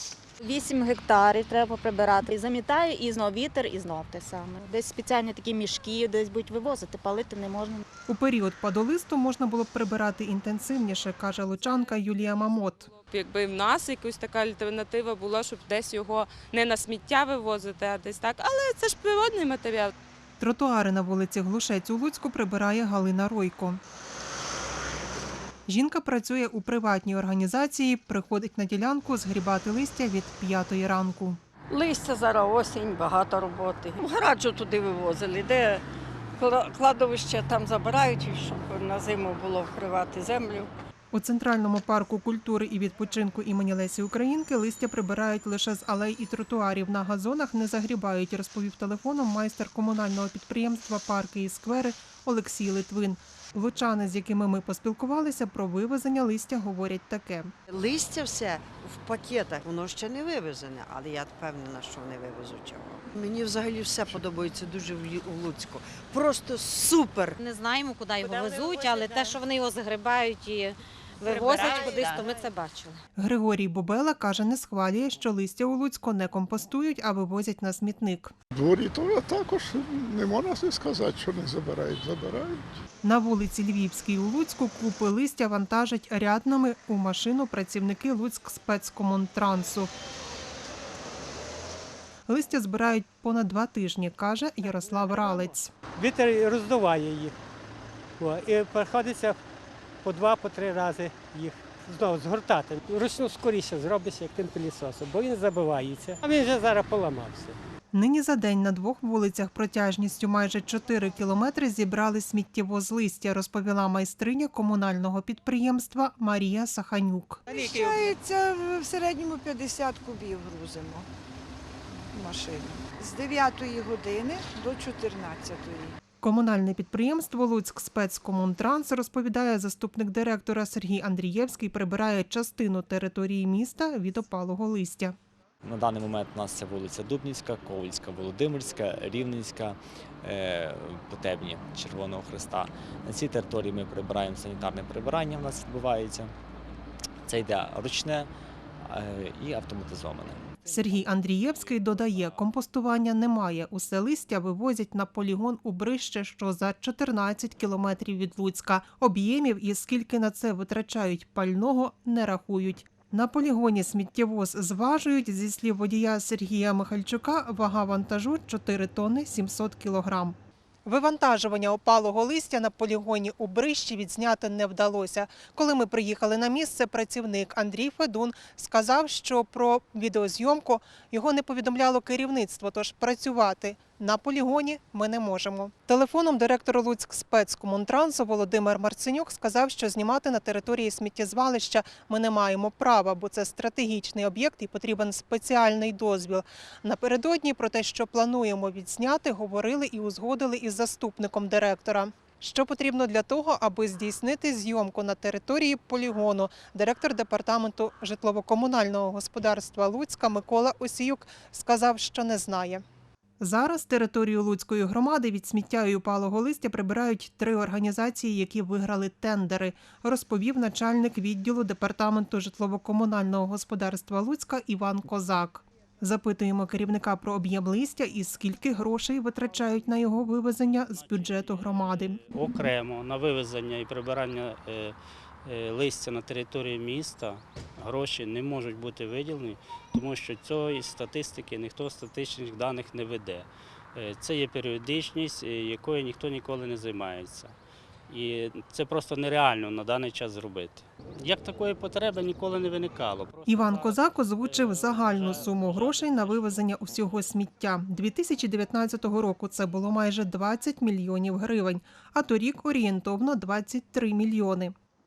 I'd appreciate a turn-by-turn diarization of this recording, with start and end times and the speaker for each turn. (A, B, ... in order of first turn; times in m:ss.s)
0:00.4-0:07.8 A
0:08.1-0:12.9 B
0:11.8-0:19.9 C
0:20.4-0:23.8 B
0:25.7-0:31.4 B
0:31.7-0:35.8 D
0:36.4-0:40.7 D
0:41.1-0:57.5 B
0:57.7-1:07.4 E
1:07.4-1:13.0 F
1:13.2-1:18.3 B
1:18.5-1:22.8 G
1:23.0-1:29.9 B
1:32.3-1:35.7 B
1:35.1-1:35.4 H
1:36.0-1:37.3 H
1:38.2-1:39.4 H
1:40.0-1:47.6 H
1:47.9-1:57.4 B
1:57.5-2:01.1 I
2:02.1-2:06.0 I
2:06.2-2:15.2 B
2:15.6-2:26.3 J
2:27.2-2:28.3 J
2:28.8-2:30.4 J
2:30.6-3:32.8 B
3:33.4-3:52.2 B
3:50.9-3:54.9 K
3:55.4-4:07.5 K
4:08.1-4:16.8 K
4:13.4-4:24.7 B